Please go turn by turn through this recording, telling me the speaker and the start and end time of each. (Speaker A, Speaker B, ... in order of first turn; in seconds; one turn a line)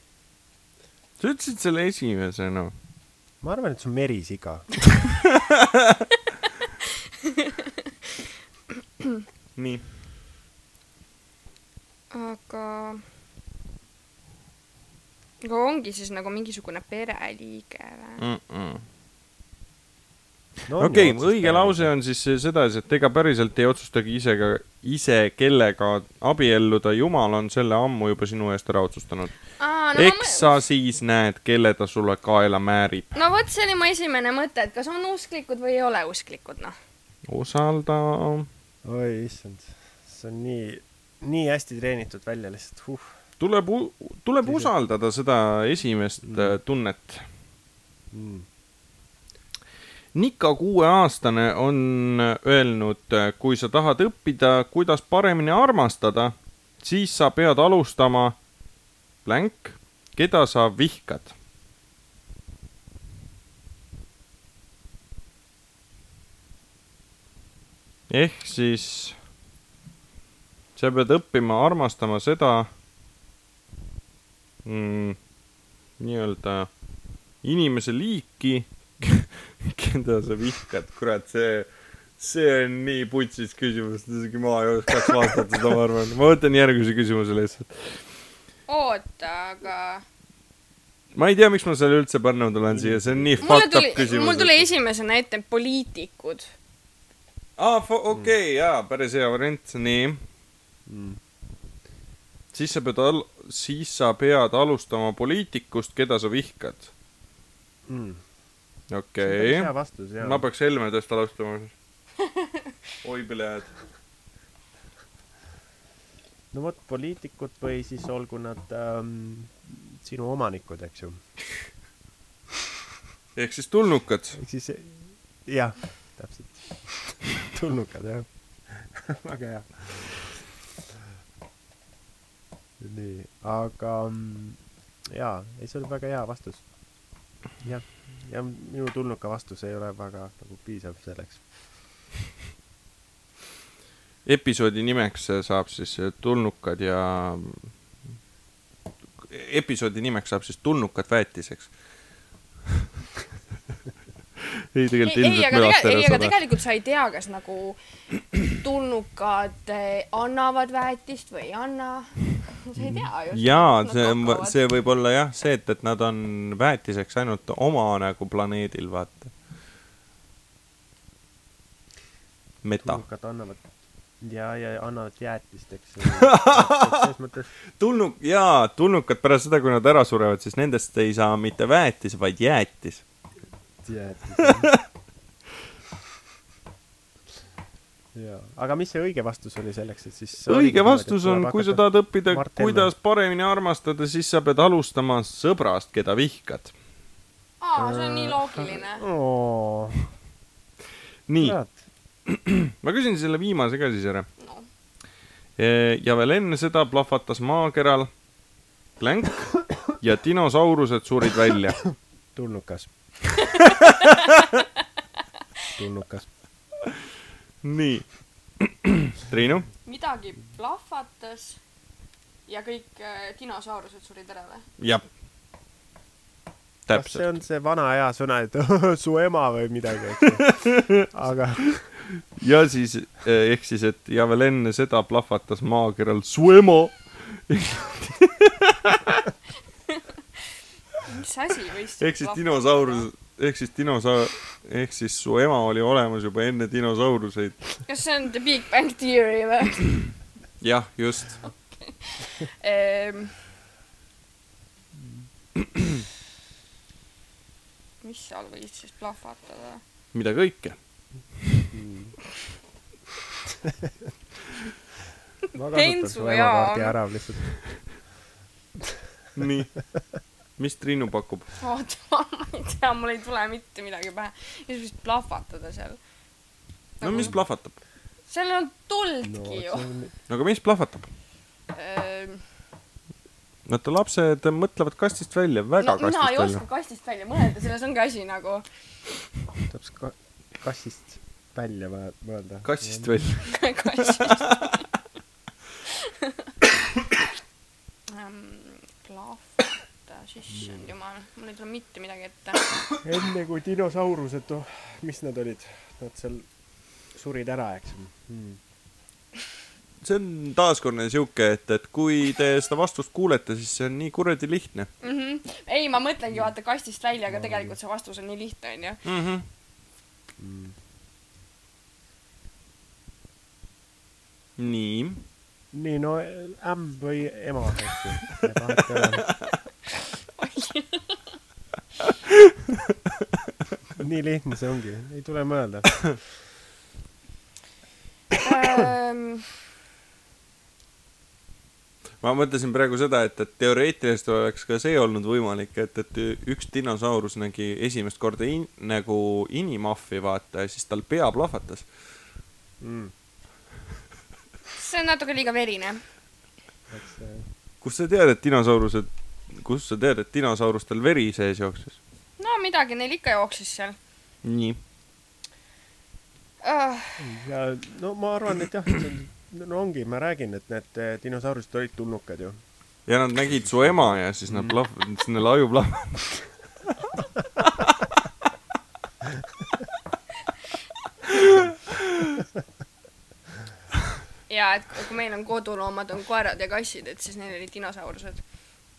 Speaker A: 1.2-2.7
Speaker B: 3.4-4.9
Speaker A: 9.6-9.9
Speaker C: 12.1-13.0
Speaker C: 15.4-18.2
Speaker A: 18.2-18.8
Speaker B: 20.7-21.9
Speaker A: 20.8-29.4
Speaker C: 29.6-30.6
Speaker A: 29.9-33.1
Speaker C: 33.1-36.7
Speaker A: 37.3-38.5
Speaker B: 38.8-43.2
Speaker A: 43.4-47.2
Speaker B: 44.4-44.7
Speaker B: 46.2-46.6
Speaker B: 48.1-48.5
Speaker A: 50.1-58.4
Speaker A: 59.2-61.3
Speaker A: 68.1-69.2
Speaker A: 70.8-72.7
Speaker A: 74.6-75.2
Speaker A: 76.0-76.7
Speaker A: 77.4-88.0
Speaker C: 88.7-90.0
Speaker A: 91.1-94.5
Speaker B: 92.7-94.7
Speaker C: 93.4-96.5
Speaker A: 97.6-100.2
Speaker B: 100.8-101.2
Speaker A: 102.5-106.9
Speaker B: 107.9-108.2
Speaker A: 108.9-111.7
Speaker B: 109.2-110.5
Speaker A: 113.0-113.7
Speaker B: 116.5-121.2
Speaker A: 123.3-124.4
Speaker B: 124.3-130.5
Speaker B: 132.8-136.7
Speaker B: 137.6-141.5
Speaker A: 144.2-147.7
Speaker A: 149.2-151.8
Speaker A: 154.7-156.3
Speaker C: 155.0-164.7
Speaker B: 162.8-163.1
Speaker A: 163.3-169.3
Speaker A: 172.6-173.0
Speaker B: 172.8-177.5
Speaker A: 176.1-177.0
Speaker A: 177.8-183.0
Speaker B: 183.8-184.7
Speaker B: 188.1-192.9
Speaker A: 190.4-196.7
Speaker C: 197.6-199.0
Speaker B: 197.8-200.0
Speaker A: 201.3-201.6
Speaker B: 201.4-201.8
Speaker A: 202.3-204.3
Speaker C: 204.4-204.6
Speaker A: 205.6-208.1
Speaker A: 209.0-211.8
Speaker B: 212.3-213.3
Speaker C: 213.4-214.4
Speaker B: 215.8-216.3
Speaker A: 217.6-219.7
Speaker C: 219.8-221.6
Speaker C: 222.5-224.7
Speaker A: 224.8-225.0
Speaker A: 226.8-227.3
Speaker B: 226.9-231.9
Speaker A: 230.6-231.0
Speaker A: 232.1-239.2
Speaker C: 241.0-243.1
Speaker A: 242.0-247.7
Speaker C: 247.8-250.0
Speaker A: 250.6-251.5
Speaker C: 251.4-253.4
Speaker B: 255.0-255.2
Speaker C: 258.0-259.8
Speaker A: 260.1-260.8
Speaker B: 261.7-262.1
Speaker B: 265.5-267.6
Speaker C: 265.7-267.0
Speaker A: 269.4-269.8
Speaker A: 270.6-271.5
Speaker C: 271.6-276.0
Speaker C: 277.0-277.5
Speaker A: 277.0-277.8
Speaker B: 277.1-277.4
Speaker C: 278.3-279.9
Speaker B: 279.2-280.1
Speaker A: 280.3-281.1
Speaker C: 281.7-282.4
Speaker A: 283.6-286.6
Speaker C: 285.8-288.7
Speaker B: 289.6-293.2
Speaker A: 292.6-293.6
Speaker C: 293.4-294.8
Speaker C: 295.9-296.5
Speaker C: 298.1-302.8
Speaker B: 300.5-300.9
Speaker B: 303.0-306.5
Speaker B: 307.1-308.6
Speaker A: 310.0-314.9
Speaker C: 315.0-319.0
Speaker B: 317.3-317.8
Speaker A: 319.0-319.4
Speaker B: 320.4-320.8
Speaker A: 324.6-325.2
Speaker B: 325.7-329.3
Speaker C: 330.3-331.4
Speaker B: 333.9-336.3
Speaker C: 338.4-339.5
Speaker A: 342.2-351.9
Speaker B: 352.8-353.1
Speaker C: 354.7-356.0
Speaker B: 356.9-357.5
Speaker A: 357.8-362.0
Speaker C: 362.4-364.0
Speaker A: 364.4-364.8
Speaker C: 366.6-367.3
Speaker B: 367.2-372.6
Speaker A: 373.1-377.0
Speaker B: 374.4-374.8
Speaker A: 377.6-378.1
Speaker A: 381.3-382.4
Speaker C: 384.5-388.4